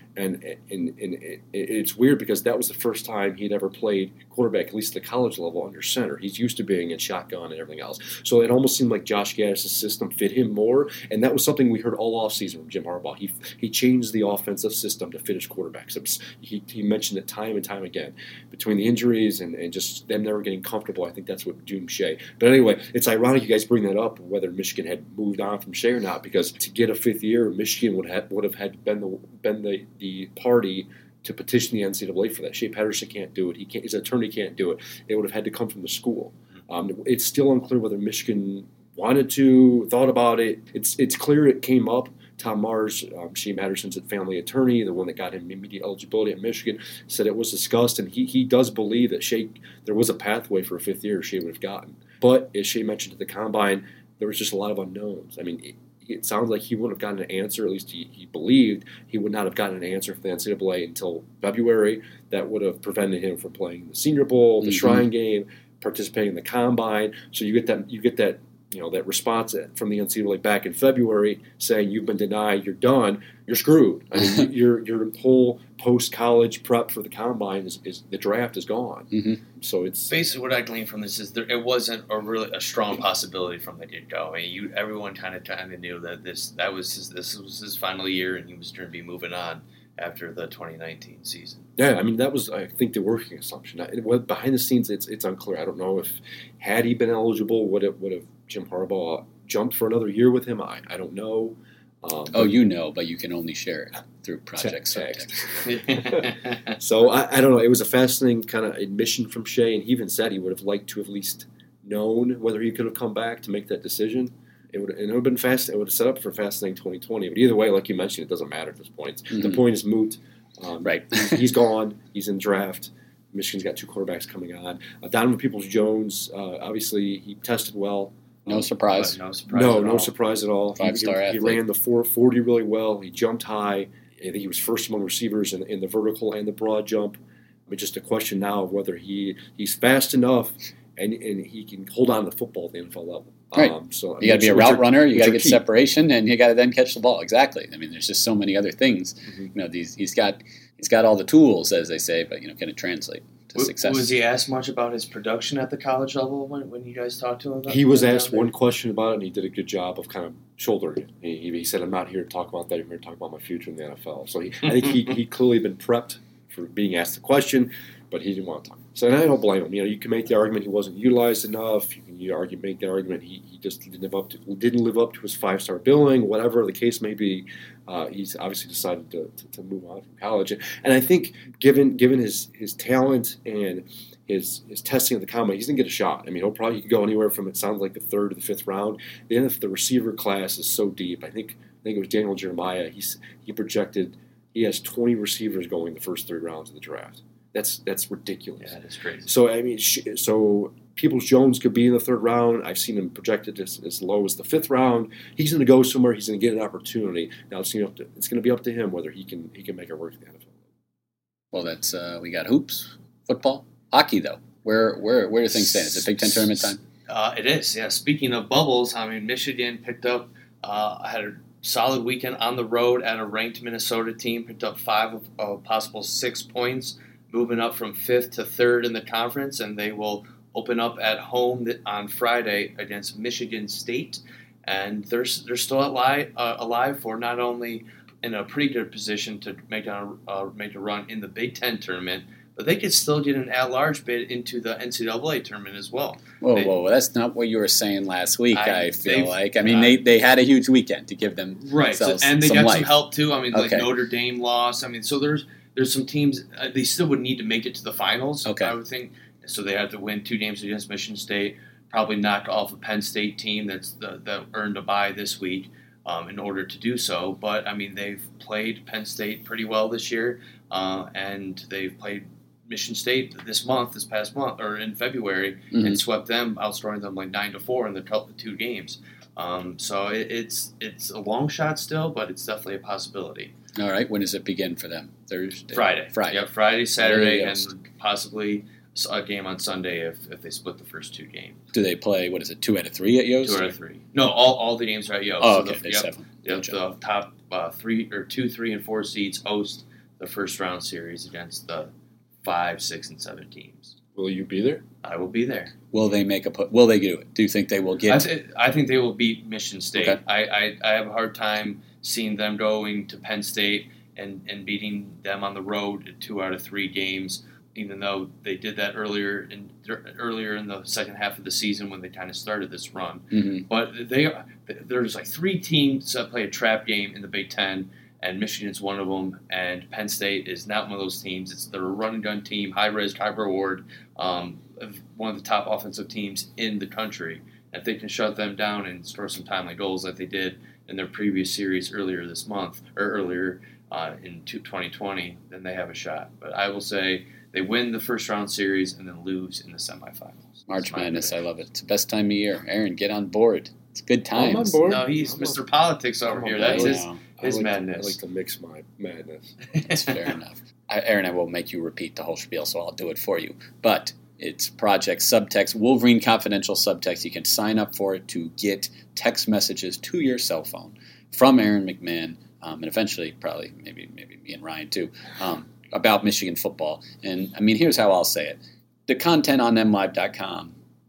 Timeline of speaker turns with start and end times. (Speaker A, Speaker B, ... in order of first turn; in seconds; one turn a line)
Speaker A: 0.2-80.2
Speaker B: 64.6-65.0
Speaker B: 79.1-79.4
Speaker C: 80.1-91.6
Speaker A: 91.8-102.5
Speaker B: 102.3-105.7
Speaker A: 104.6-128.2
Speaker C: 105.7-106.8
Speaker B: 120.8-121.4
Speaker B: 128.5-129.2
Speaker C: 128.9-130.1
Speaker A: 129.5-137.2
Speaker B: 130.8-131.6
Speaker A: 137.7-145.6
Speaker B: 143.6-154.1
Speaker C: 153.6-158.5
Speaker A: 157.7-198.8
Speaker C: 198.6-199.3
Speaker A: 199.3-210.6
Speaker B: 211.5-216.8
Speaker C: 217.1-246.7
Speaker B: 246.4-252.9
Speaker C: 248.5-250.0
Speaker C: 251.6-283.5
Speaker B: 253.5-253.9
Speaker B: 258.4-258.8
Speaker B: 275.7-276.0
Speaker B: 283.8-287.7
Speaker C: 285.7-291.6
Speaker B: 291.7-293.8
Speaker C: 293.4-301.9
Speaker B: 295.4-296.8
Speaker C: 302.4-304.0
Speaker A: 304.1-304.8
Speaker C: 305.0-305.7
Speaker B: 305.9-308.3
Speaker C: 308.1-351.4
Speaker B: 323.3-323.7
Speaker B: 350.7-354.9
Speaker A: 354.4-355.6
Speaker C: 354.9-358.2
Speaker A: 356.3-359.6
Speaker B: 356.6-357.2
Speaker C: 359.8-360.2
Speaker B: 359.8-380.7